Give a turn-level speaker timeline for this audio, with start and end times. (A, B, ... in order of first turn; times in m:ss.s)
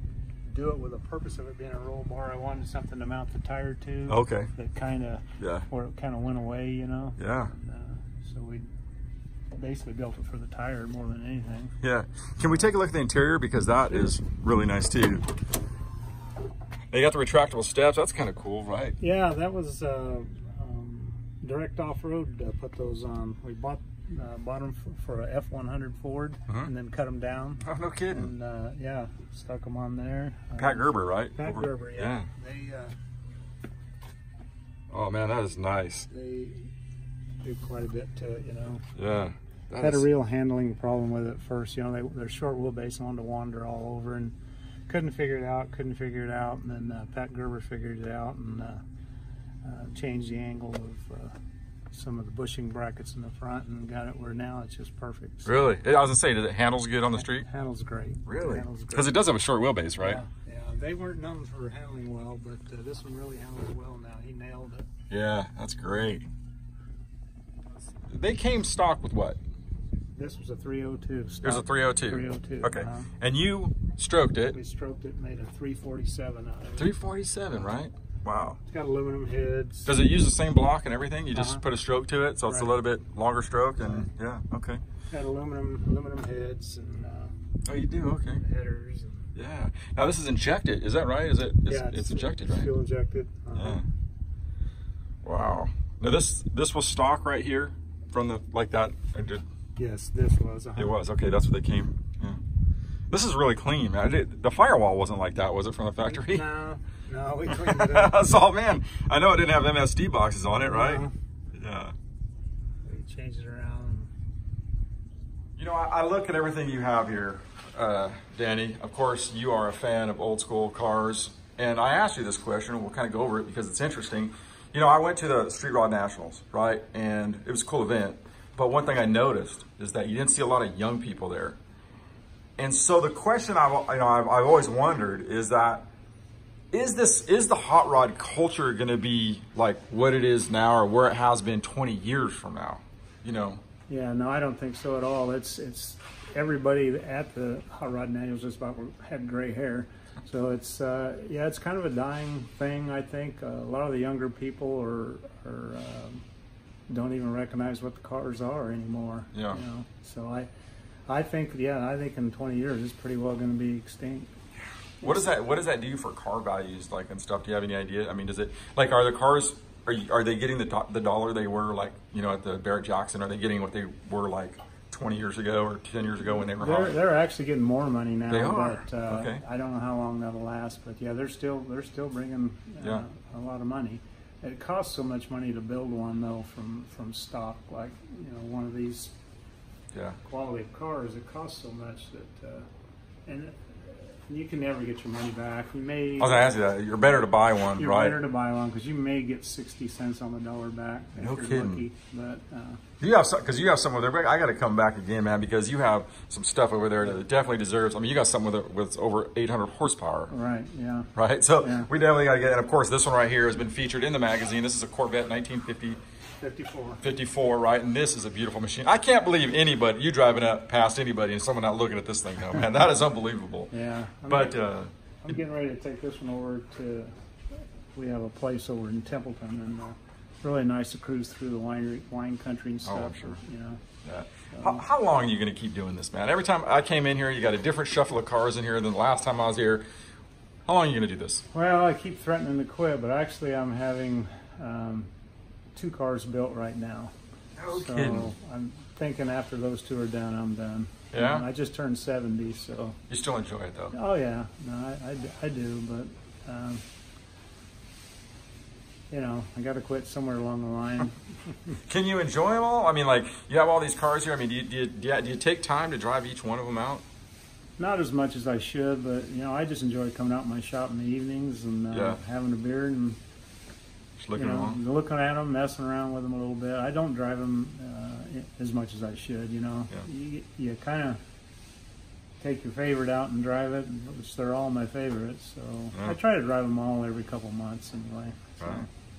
0:00.4-0:08.7 A
0:04.1-0:04.5 B
0:05.4-0:05.6 B
0:07.2-0:07.5 B
0:09.5-0:11.8 A
0:11.8-0:15.3 B
0:16.9-0:19.0 B
0:19.0-0:32.9 A
0:27.6-0:28.3 B
0:30.6-0:32.3 B
0:34.9-0:36.1 B
0:36.1-0:36.7 A
0:37.4-0:38.8 A
0:39.0-0:40.1 B
0:39.8-0:44.3 A
0:44.9-0:48.8 A
0:49.6-0:51.3 A
0:51.9-0:55.5 A
0:55.4-0:57.4 B
0:57.2-0:59.1 A
0:58.2-1:00.2 B
1:00.0-1:04.9 A
1:05.1-1:06.3 B
1:08.1-1:09.4 B
1:10.1-1:13.1 A
1:11.4-1:14.6 B
1:14.5-1:16.9 A
1:16.8-1:18.6 B
1:18.6-1:19.9 A
1:19.8-1:24.8 B
1:21.3-1:21.6 A
1:22.5-1:22.7 A
1:23.8-1:24.1 A
1:25.1-1:27.4 A
1:27.6-1:28.4 B
1:28.3-1:29.3 A
1:29.3-1:32.7 B
1:31.7-1:33.8 A
1:33.5-1:33.8 B
1:35.2-1:39.4 B
1:39.8-1:41.0 A
1:40.8-1:42.4 B
1:43.1-1:46.4 B
1:46.0-1:48.2 A
1:47.4-1:51.9 B
1:50.6-1:51.1 A
1:52.8-1:54.1 A
1:55.6-2:11.6 B
2:12.6-2:15.9 B
2:16.7-2:23.6 B
2:23.9-2:36.2 A
2:36.9-2:40.5 A
2:39.3-2:39.6 B
2:41.1-2:44.3 A
2:45.0-2:45.3 A
2:45.0-2:57.0 B
2:56.2-3:09.1 A
2:58.3-2:59.4 B
3:09.9-3:10.2 B
3:10.2-3:12.7 A
3:13.2-3:16.5 A
3:16.2-3:18.2 B
3:17.8-3:22.8 A
3:21.2-3:21.8 B
3:23.0-3:30.3 B
3:30.3-3:31.1 A
3:31.2-3:36.0 B
3:31.6-3:31.9 A
3:36.4-3:37.0 A
3:37.0-3:43.7 B
3:43.7-3:44.6 A
3:44.3-3:45.3 B
3:45.2-3:47.1 A
3:47.9-3:53.8 A
3:52.8-3:53.4 B
3:54.0-3:59.8 B
3:54.5-3:54.8 A
4:00.6-4:01.4 B
4:01.5-4:05.1 A
4:05.7-4:07.1 A
4:07.6-4:08.3 B
4:07.7-4:13.0 A
4:11.1-4:11.4 B
4:13.1-4:13.9 B
4:13.9-4:16.8 A
4:19.1-4:21.8 A
4:21.8-4:27.0 B
4:27.8-4:33.2 A
4:31.9-4:32.2 B
4:34.2-4:34.8 B
4:34.3-4:41.2 A
4:42.4-4:48.8 A
4:48.6-4:48.9 B